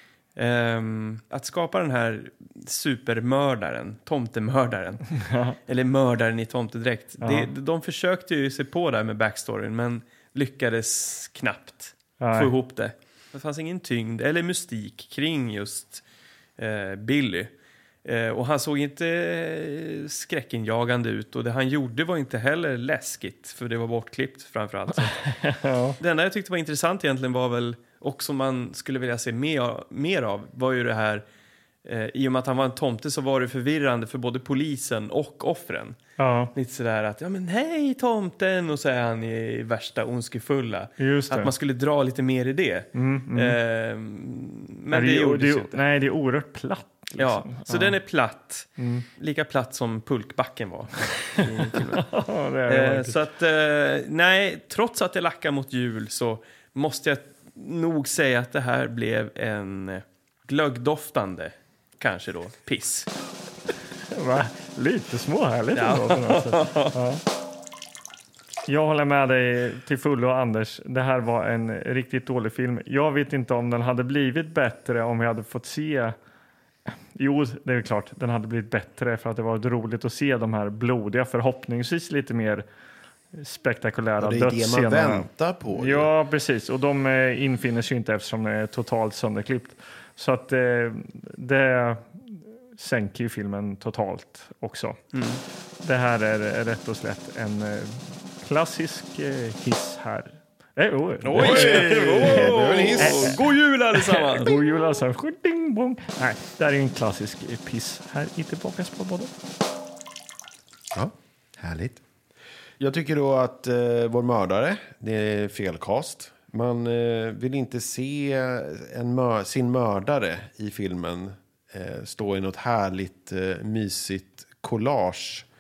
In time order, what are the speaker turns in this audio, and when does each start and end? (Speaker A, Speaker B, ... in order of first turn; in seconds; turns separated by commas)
Speaker A: 0.3-5.1, Speaker B: 5.2-5.5, Speaker A: 5.7-16.0, Speaker B: 7.2-7.5, Speaker B: 12.2-12.5, Speaker A: 16.6-17.5, Speaker A: 18.0-25.2, Speaker B: 25.2-26.0, Speaker A: 26.0-31.2, Speaker A: 31.8-36.0, Speaker B: 36.2-36.5, Speaker A: 36.5-45.8, Speaker B: 41.0-41.5, Speaker B: 42.9-43.6, Speaker B: 44.9-48.0, Speaker A: 47.2-52.1, Speaker B: 48.8-49.0, Speaker B: 51.4-53.1, Speaker A: 52.7-63.1, Speaker B: 64.1-67.2, Speaker A: 65.7-67.0, Speaker B: 68.7-76.1, Speaker B: 76.9-82.6, Speaker B: 83.3-95.0, Speaker C: 84.2-86.1, Speaker A: 95.1-95.4, Speaker B: 95.8-103.4, Speaker A: 101.2-104.5, Speaker C: 101.4-103.4, Speaker B: 104.0-109.3, Speaker C: 110.9-112.0, Speaker C: 112.8-125.5